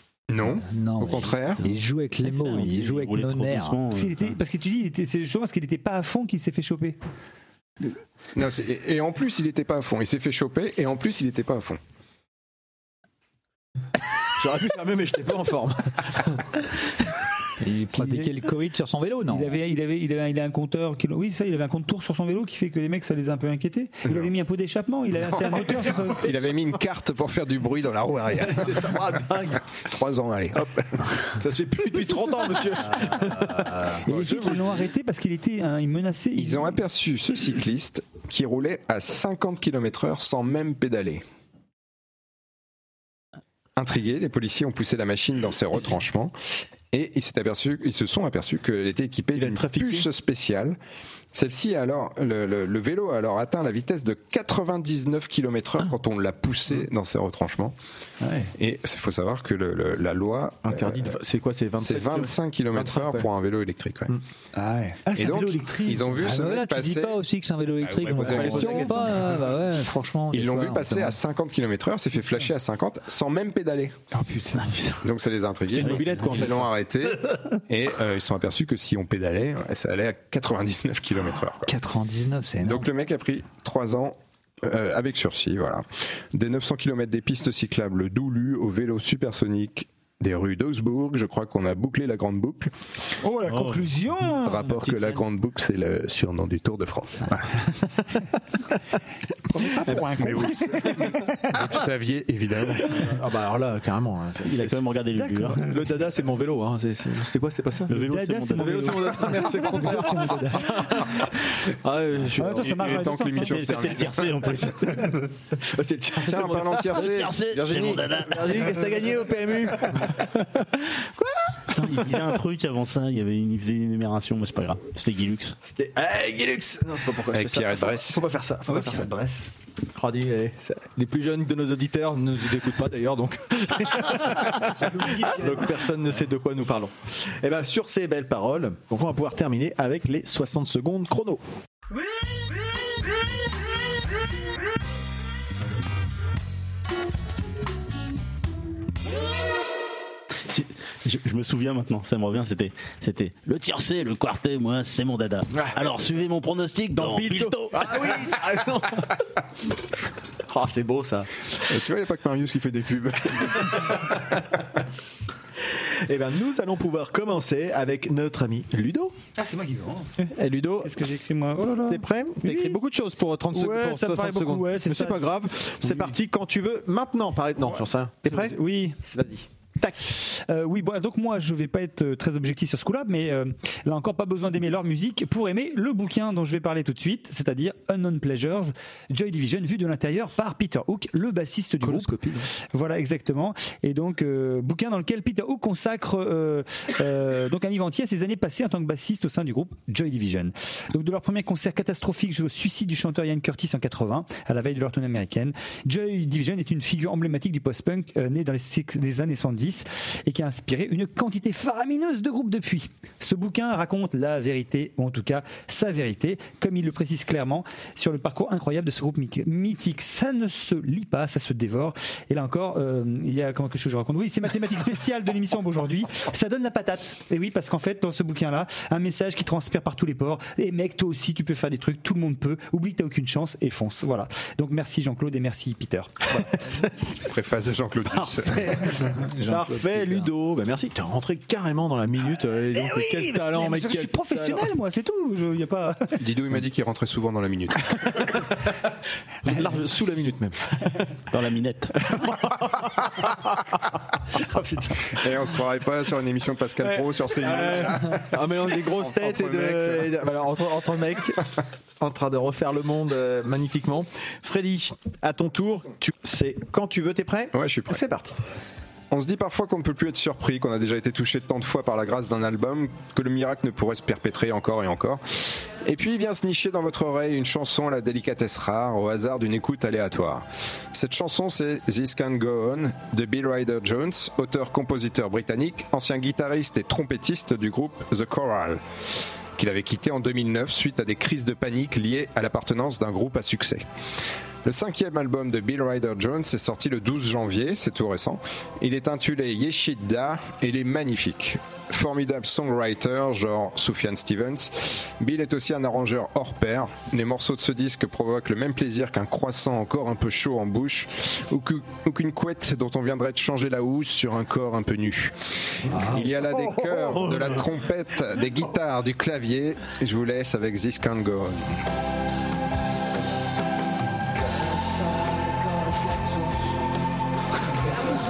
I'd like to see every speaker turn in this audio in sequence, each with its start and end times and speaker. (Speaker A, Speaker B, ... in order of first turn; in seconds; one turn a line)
Speaker A: 0.3-1.6
Speaker B: 0.7-3.8
Speaker C: 2.2-4.3
Speaker D: 3.9-7.0
Speaker A: 8.3-11.8
Speaker E: 14.4-16.5
Speaker B: 17.6-19.6
Speaker D: 17.9-18.4
Speaker D: 19.3-26.3
Speaker A: 25.3-31.1
Speaker E: 28.4-29.6
Speaker E: 31.4-33.8
Speaker B: 33.4-33.9
Speaker D: 34.0-36.8
Speaker A: 34.1-34.8
Speaker A: 36.4-41.2
Speaker A: 43.8-46.4
Speaker A: 46.9-50.8
Speaker E: 49.4-50.1
Speaker A: 51.3-57.8
Speaker D: 58.2-58.5
Speaker A: 58.6-61.1
Speaker E: 60.6-63.3
Speaker A: 61.8-64.1
Speaker D: 64.5-66.5
Speaker A: 65.1-67.2
Speaker B: 66.2-71.2
Speaker A: 67.8-69.4
Speaker E: 68.1-69.3
Speaker A: 70.3-74.0
Speaker D: 74.1-74.8
Speaker A: 75.0-81.7
Speaker E: 75.7-76.7
Speaker C: 75.8-76.5
Speaker B: 81.7-82.9
Speaker A: 82.6-92.7
Speaker D: 93.2-94.8
Speaker C: 93.5-93.8
Speaker A: 94.4-97.7
Speaker E: 94.7-95.2
Speaker D: 99.5-101.8
Speaker A: 100.1-103.2
Speaker E: 102.9-104.8
Speaker C: 104.4-105.8
Speaker D: 105.2-105.6
Speaker E: 105.6-108.0
Speaker C: 107.9-109.0
Speaker D: 107.9-111.2
Speaker E: 108.5-113.0
Speaker D: 112.3-113.7
Speaker C: 112.6-115.3
Speaker A: 112.8-114.3
Speaker E: 114.6-117.2
Speaker A: 116.2-118.6
Speaker C: 116.9-118.8
Speaker E: 118.1-122.1
Speaker C: 121.7-125.6
Speaker E: 125.7-129.1
Speaker A: 127.3-128.2
Speaker D: 128.7-129.5
Speaker E: 130.0-141.4
Speaker D: 134.6-135.7
Speaker C: 150.5-158.1
Speaker E: 155.5-156.1
Speaker E: 156.9-159.2
Speaker E: 160.5-161.5
Speaker A: 161.7-164.1
Speaker E: 165.7-169.1
Speaker D: 169.4-170.3
Speaker E: 170.2-171.2
Speaker D: 170.8-172.8
Speaker E: 171.9-180.1
Speaker D: 173.5-175.3
Speaker D: 175.8-176.1
Speaker D: 177.6-179.1
Speaker D: 180.0-236.9
Speaker E: 191.8-192.1
Speaker E: 236.4-237.1
Speaker A: 237.1-239.1
Speaker E: 238.1-238.9
Speaker B: 239.0-240.3
Speaker E: 239.4-244.7
Speaker D: 242.7-246.4
Speaker A: 246.2-248.3
Speaker E: 249.4-251.1
Speaker C: 251.3-252.1
Speaker E: 252.0-253.6
Speaker D: 254.5-255.1
Speaker A: 255.1-260.2
Speaker E: 256.8-268.4
Speaker A: 267.5-268.0
Speaker A: 269.1-288.8
Speaker A: 289.6-293.9
Speaker A: 294.6-315.3
Speaker A: 315.9-321.8